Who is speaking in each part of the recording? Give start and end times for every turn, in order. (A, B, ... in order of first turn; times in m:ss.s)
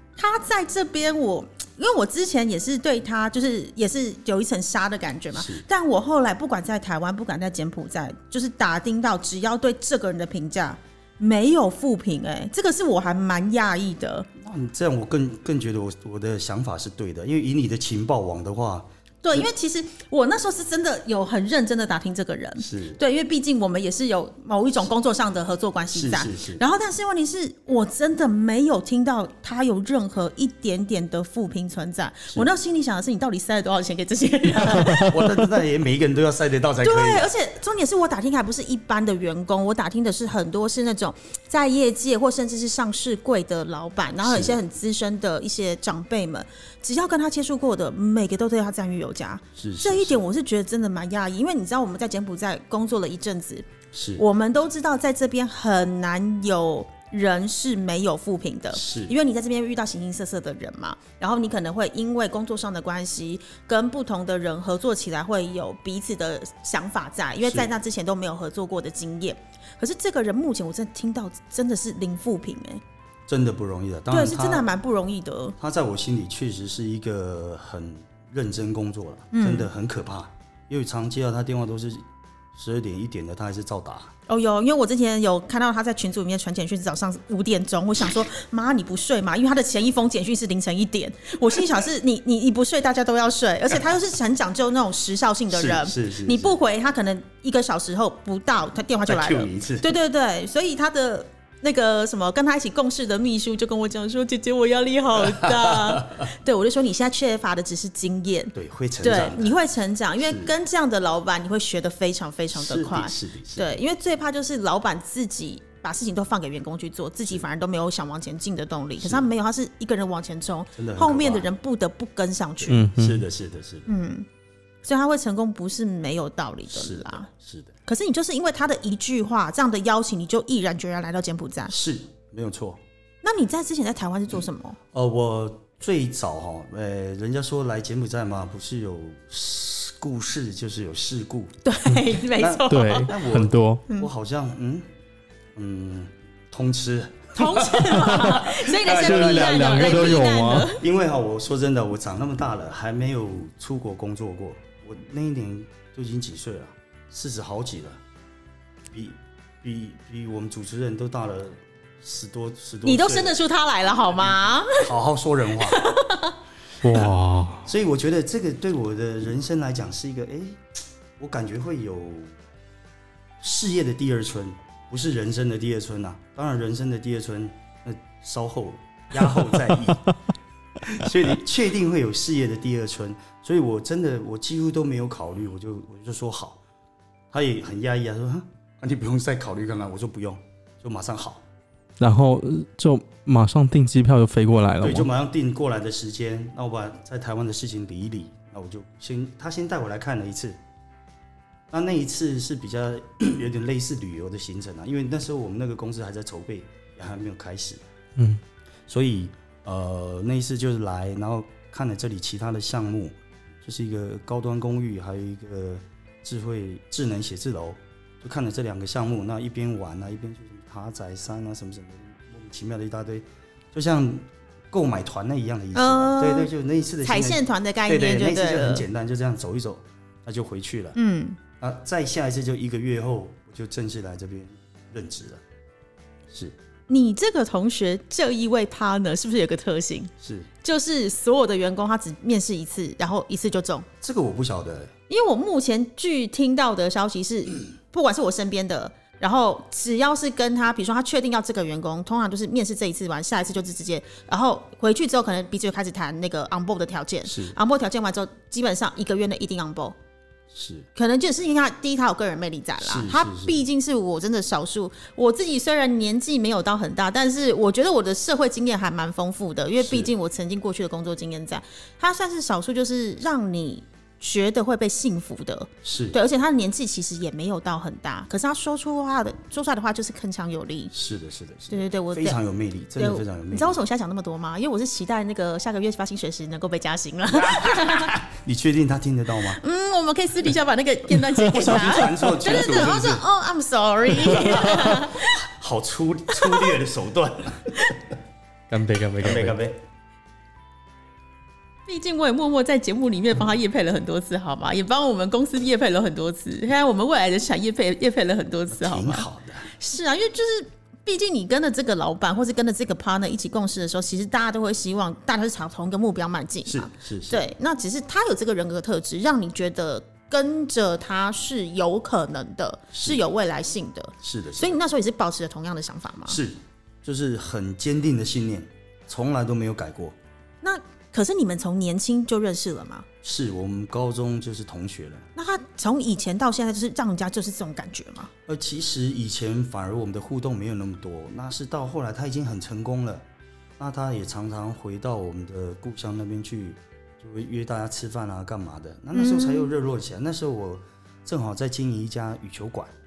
0:00.2-0:14.3 A
0:05.3-0:05.6 B
0:14.4-0:19.5 B
0:19.2-0:35.2 A
0:22.6-0:23.0 B
0:25.9-0:26.6 B
0:34.6-0:37.3 B
0:36.8-1:12.8 A
0:44.2-0:44.6 B
0:49.6-0:50.2 B
0:53.9-0:54.2 B
0:58.7-0:59.1 B
1:07.4-1:07.7 B
1:13.3-1:14.7 B
1:14.1-1:15.6 A
1:15.6-1:24.1 B
1:19.3-1:19.7 A
1:24.3-2:02.8 A
1:35.5-1:36.6 B
1:39.1-1:39.9 B
1:45.2-1:46.2 B
1:48.5-1:49.6 B
1:50.2-1:50.5 B
1:52.5-1:53.8 B
1:59.0-1:59.3 B
2:00.8-2:01.5 B
2:02.6-2:03.9 B
2:02.7-2:03.2 C
2:03.9-2:04.3 A
2:04.8-2:07.3 A
2:06.7-2:07.8 B
2:07.9-2:11.7 A
2:11.7-2:12.8 B
2:13.2-2:14.8 A
2:14.9-2:21.5 B
2:21.6-2:23.2 A
2:22.2-2:24.9 B
2:22.7-2:23.8 C
2:25.6-2:38.0 B
2:27.4-2:30.8 A
2:28.1-2:30.7 C
2:38.9-2:43.4 B
2:42.8-2:44.9 A
2:44.8-2:45.8 B
2:45.6-2:46.4 A
2:46.8-2:47.7 C
2:46.9-2:47.1 B
2:47.6-2:50.6 B
2:51.2-2:52.4 B
2:53.4-3:00.1 B
3:00.8-3:06.6 B
3:07.3-3:11.4 B
3:12.0-3:15.1 C
3:14.8-3:20.6 B
3:21.7-3:27.8 B
3:28.9-3:51.0 B
3:45.7-3:46.5 A
3:47.0-3:48.8 A
3:51.0-3:51.4 A
3:51.6-3:55.4 B
3:56.3-3:56.6 B
3:56.9-4:00.1 A
4:00.2-4:00.5 B
4:00.6-4:03.9 A
4:04.0-4:04.9 B
4:05.1-4:20.0 A
4:17.2-4:17.6 B
4:20.5-4:20.9 B
4:21.0-4:40.9 A
4:22.8-4:23.6 B
4:29.8-4:30.1 B
4:35.8-4:36.2 B
4:40.9-4:43.8 B
4:41.7-4:42.4 A
4:43.0-4:48.2 A
4:47.3-4:49.6 B
4:49.5-4:55.4 A
4:51.4-4:53.2 B
4:54.2-4:58.0 B
4:56.3-4:56.7 A
4:58.7-4:59.6 C
4:59.2-4:59.8 B
5:01.9-5:26.4 A
5:08.7-5:09.7 B
5:16.7-5:17.4 B
5:22.9-5:23.2 B
5:24.2-5:24.8 B
5:26.3-5:30.2 B
5:30.6-5:33.1 A
5:33.2-5:35.3 B
5:35.4-5:38.3 A
5:38.5-5:43.3 B
5:43.8-5:52.9 B
5:49.2-5:49.7 A